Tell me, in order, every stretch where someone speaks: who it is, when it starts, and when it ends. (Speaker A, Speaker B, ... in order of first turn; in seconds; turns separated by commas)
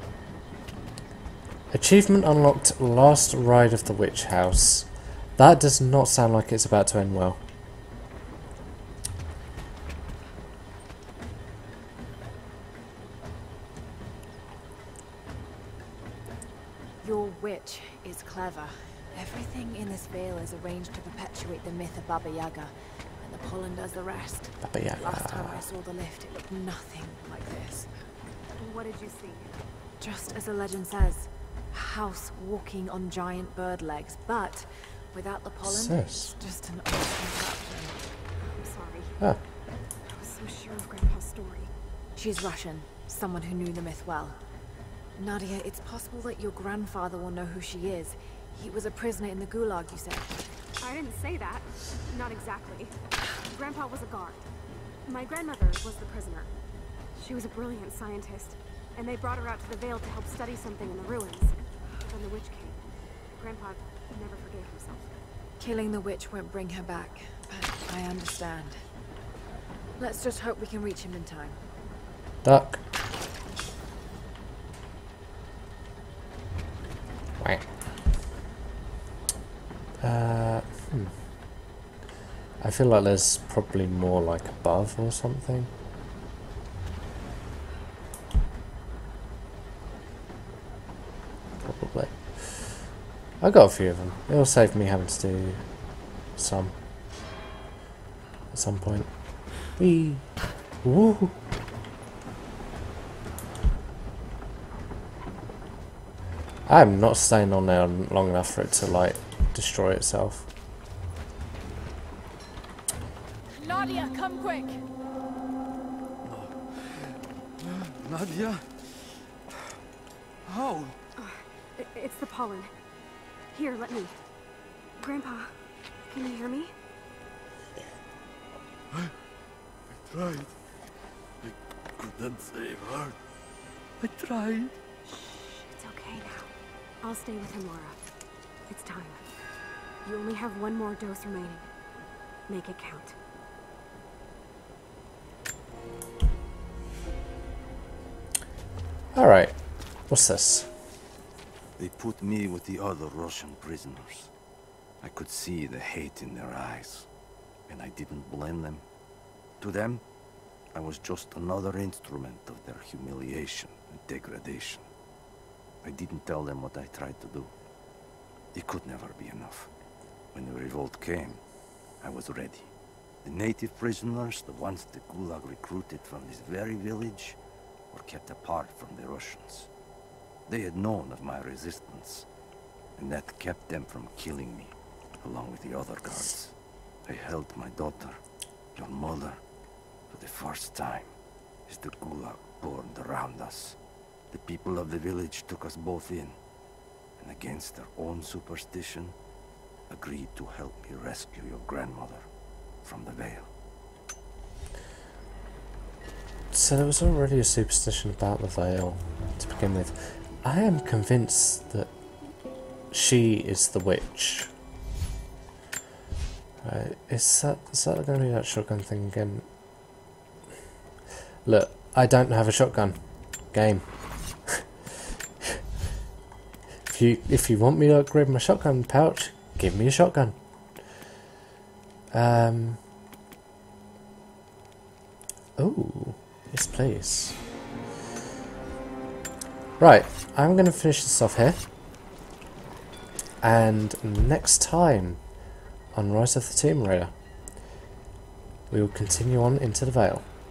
Speaker A: 1.7-7.4, Speaker B: 17.0-27.9, Speaker A: 24.6-25.7, Speaker C: 28.6-29.5, Speaker B: 30.0-38.0, Speaker A: 35.6-36.4, Speaker C: 38.4-39.2, Speaker C: 40.0-41.7, Speaker B: 42.1-44.4, Speaker B: 45.1-50.4, Speaker C: 50.8-52.9, Speaker C: 53.5-54.4, Speaker C: 55.0-56.5, Speaker C: 57.1-62.8, Speaker C: 63.4-65.1, Speaker B: 65.6-68.8, Speaker B: 70.0-71.6, Speaker A: 72.4-72.8, Speaker A: 77.4-77.6, Speaker A: 80.0-81.1, Speaker A: 82.6-85.7, Speaker A: 91.6-92.9, Speaker A: 93.4-95.7, Speaker A: 96.3-96.8, Speaker A: 98.5-101.4, Speaker A: 106.7-110.5, Speaker B: 113.5-114.8, Speaker D: 116.2-119.2, Speaker D: 120.4-121.0, Speaker C: 121.2-122.7, Speaker C: 123.5-124.1, Speaker C: 125.0-125.5, Speaker C: 126.1-126.7, Speaker D: 129.9-130.5, Speaker D: 131.4-133.2, Speaker D: 134.0-134.8, Speaker C: 135.1-138.0, Speaker C: 138.7-139.2, Speaker C: 140.0-141.7, Speaker C: 142.5-143.2, Speaker A: 149.1-150.7, Speaker D: 151.8-154.3, Speaker D: 155.0-157.1, Speaker D: 157.7-158.8, Speaker D: 159.6-160.0, Speaker D: 160.7-164.9, Speaker D: 165.8-167.5, Speaker D: 168.5-169.7, Speaker D: 170.3-171.4, Speaker D: 172.0-172.7, Speaker D: 173.2-177.4, Speaker D: 177.9-179.7, Speaker D: 180.5-182.3, Speaker D: 183.0-186.5, Speaker D: 187.1-188.2, Speaker D: 188.8-189.4, Speaker D: 190.1-191.1, Speaker D: 191.7-193.8, Speaker D: 194.3-196.4, Speaker D: 197.2-199.2, Speaker D: 199.9-202.3, Speaker D: 202.8-203.5, Speaker A: 206.5-211.9, Speaker A: 212.9-214.5, Speaker A: 216.6-219.5, Speaker A: 221.4-223.9, Speaker A: 224.4-224.9, Speaker A: 226.8-230.4, Speaker A: 232.1-232.8, Speaker A: 235.6-237.4, Speaker A: 239.8-241.7, Speaker A: 243.4-245.2, Speaker A: 245.9-247.1, Speaker A: 248.7-250.3